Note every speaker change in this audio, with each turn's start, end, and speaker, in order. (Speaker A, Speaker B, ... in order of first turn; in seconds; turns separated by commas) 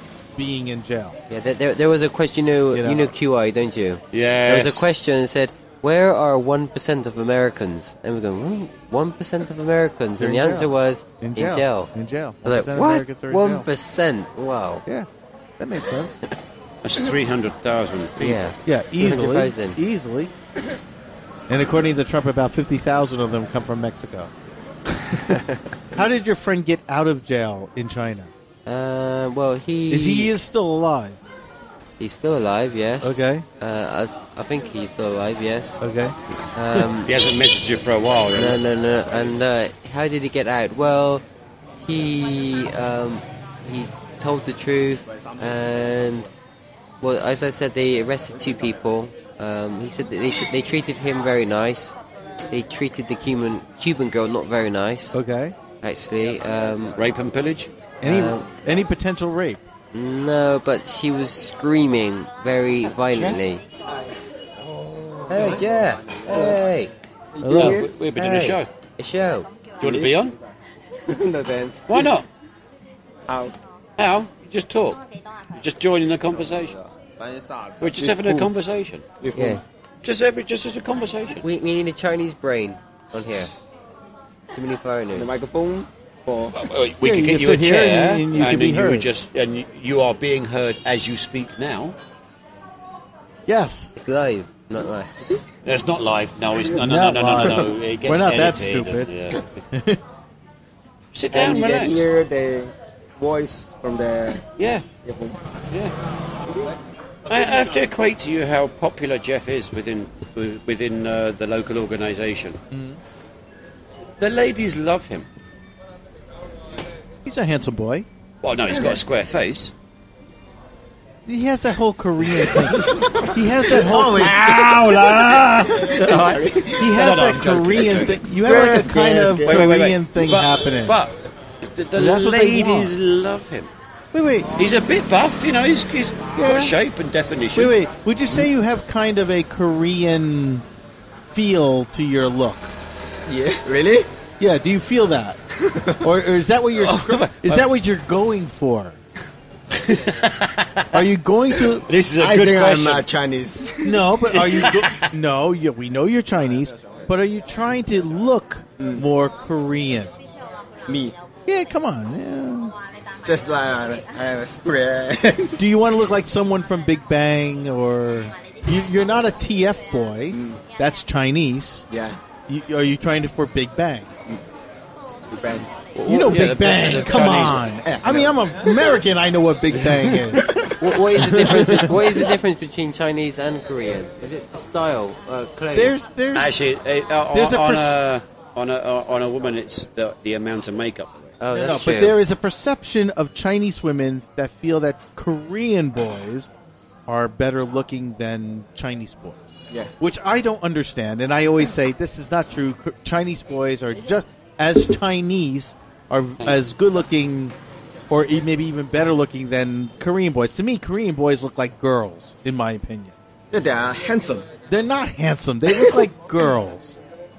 Speaker A: 0.4-1.2, Speaker B: 1.3-11.9, Speaker A: 2.7-3.1, Speaker C: 4.1-4.9, Speaker A: 10.2-13.7, Speaker B: 12.4-14.8, Speaker A: 14.9-16.2, Speaker C: 16.8-18.4, Speaker B: 18.2-19.8, Speaker A: 18.7-20.3, Speaker A: 21.5-24.3, Speaker A: 25.0-28.3, Speaker B: 28.7-30.4, Speaker A: 29.9-31.2, Speaker B: 32.0-35.8, Speaker A: 33.0-33.5, Speaker A: 35.8-36.2, Speaker B: 36.5-37.1, Speaker C: 37.0-38.6, Speaker B: 38.3-41.2, Speaker B: 41.8-46.3, Speaker B: 47.0-52.0, Speaker B: 52.5-55.2, Speaker A: 55.1-55.6, Speaker B: 55.8-57.0, Speaker C: 57.0-57.7, Speaker A: 58.0-59.6, Speaker B: 58.0-58.5, Speaker B: 59.9-63.6, Speaker C: 63.1-63.4, Speaker D: 64.6-65.7, Speaker B: 65.3-66.9, Speaker D: 66.3-66.6, Speaker D: 67.4-67.9, Speaker A: 67.4-67.8, Speaker C: 67.5-68.7, Speaker B: 68.2-69.5, Speaker C: 69.8-70.3, Speaker D: 69.8-70.1, Speaker D: 71.1-72.1, Speaker C: 71.9-72.3, Speaker D: 73.3-73.5, Speaker C: 74.0-75.0, Speaker C: 75.5-76.8, Speaker D: 77.2-78.5, Speaker C: 77.8-79.1, Speaker D: 79.2-79.6, Speaker B: 79.3-79.6, Speaker C: 80.0-81.5, Speaker B: 81.4-83.5, Speaker B: 84.5-85.4, Speaker D: 85.2-86.5, Speaker C: 86.5-92.0, Speaker A: 87.0-89.1, Speaker A: 93.5-93.9, Speaker B: 94.0-95.1, Speaker C: 95.7-99.5, Speaker A: 96.8-99.1, Speaker A: 99.7-100.0, Speaker C: 101.1-102.0, Speaker D: 101.3-104.4, Speaker C: 104.6-104.8, Speaker D: 105.0-105.4, Speaker C: 107.3-112.6, Speaker A: 112.7-113.0, Speaker C: 114.2-115.3, Speaker A: 117.2-118.1, Speaker C: 118.4-119.7, Speaker D: 118.7-119.0, Speaker A: 121.3-131.0, Speaker D: 122.5-129.7, Speaker C: 124.2-128.7, Speaker C: 129.5-133.7, Speaker A: 131.9-132.9, Speaker A: 134.1-134.5, Speaker C: 134.6-137.8, Speaker A: 136.4-136.8, Speaker A: 137.5-140.7, Speaker A: 141.3-142.7, Speaker D: 143.3-144.1, Speaker A: 144.4-145.4, Speaker D: 145.6-146.1, Speaker A: 146.0-149.0, Speaker C: 146.8-147.7, Speaker C: 149.7-151.0, Speaker A: 150.9-151.9, Speaker C: 151.7-153.1, Speaker D: 152.2-154.6, Speaker A: 153.8-160.1, Speaker C: 154.3-155.1, Speaker D: 158.8-159.0, Speaker D: 160.9-161.2, Speaker A: 161.5-162.7, Speaker D: 163.2-165.6, Speaker A: 165.6-171.8, Speaker D: 170.3-170.6, Speaker D: 171.9-172.2, Speaker A: 172.5-174.1, Speaker D: 175.3-175.7, Speaker C: 175.9-177.7, Speaker A: 176.0-182.0, Speaker D: 177.3-178.9, Speaker D: 180.4-180.7, Speaker B: 180.8-186.0, Speaker A: 185.7-186.6, Speaker C: 186.3-191.4, Speaker A: 187.3-188.0, Speaker B: 191.4-192.2, Speaker A: 191.5-196.5, Speaker A: 197.1-199.5, Speaker A: 200.0-207.6, Speaker A: 208.1-213.1, Speaker D: 213.5-214.5, Speaker A: 214.7-217.0